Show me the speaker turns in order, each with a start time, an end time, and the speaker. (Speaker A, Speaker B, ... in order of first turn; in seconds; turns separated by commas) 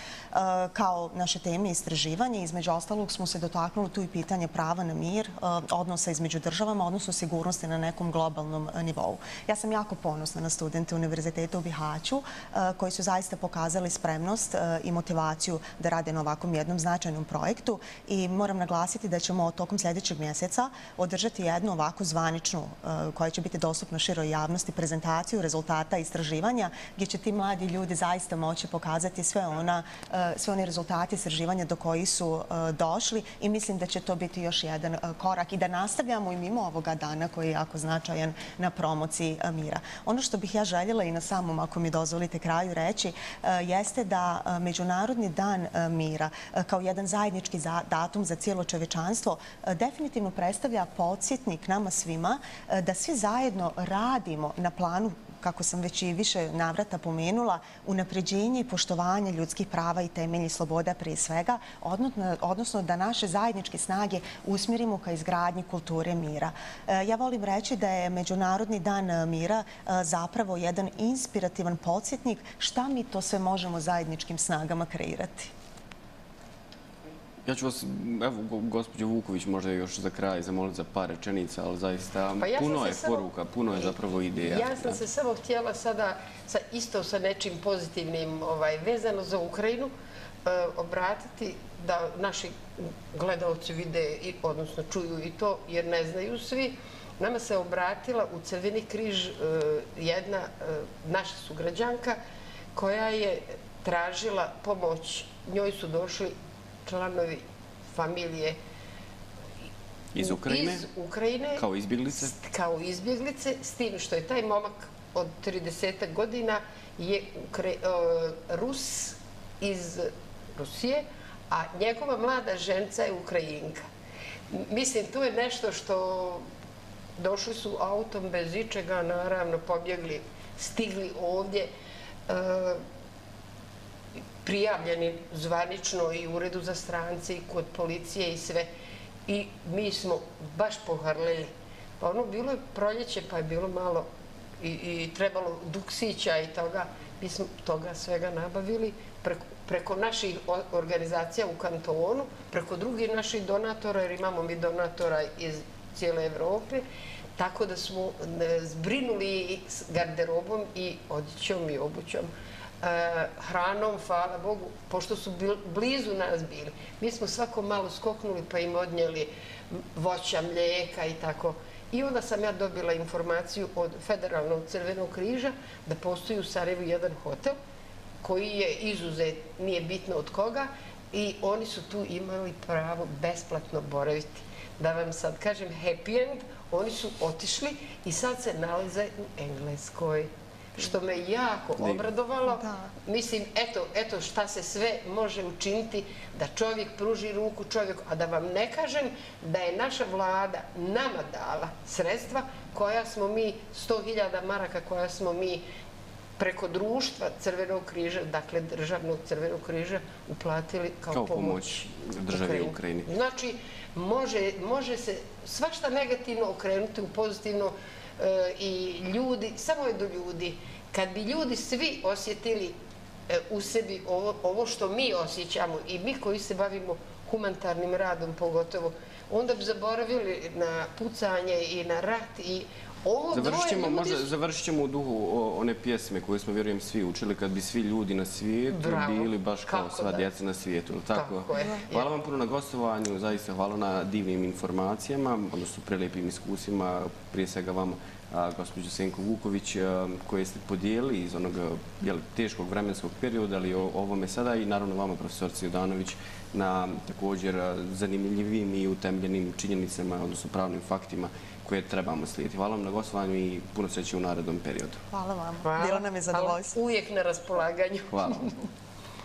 Speaker A: 0.3-75.5, Speaker B: 77.5-85.0, Speaker C: 82.4-83.9, Speaker C: 84.5-89.9, Speaker C: 90.5-102.2, Speaker C: 102.8-106.3, Speaker C: 106.9-108.6, Speaker B: 110.1-110.9, Speaker C: 110.2-111.6, Speaker B: 111.6-112.3, Speaker C: 112.1-123.8, Speaker C: 124.5-126.5, Speaker C: 127.2-131.7, Speaker C: 132.3-132.8, Speaker C: 134.4-138.7, Speaker C: 139.3-144.1, Speaker C: 144.6-156.8, Speaker C: 157.4-162.3, Speaker C: 162.8-177.6, Speaker C: 178.2-205.7, Speaker C: 206.4-222.8, Speaker B: 211.1-213.1, Speaker C: 223.3-234.3, Speaker B: 233.3-265.0, Speaker C: 238.7-240.3, Speaker C: 241.1-242.1, Speaker A: 265.1-266.8, Speaker C: 265.6-268.5, Speaker B: 268.1-268.5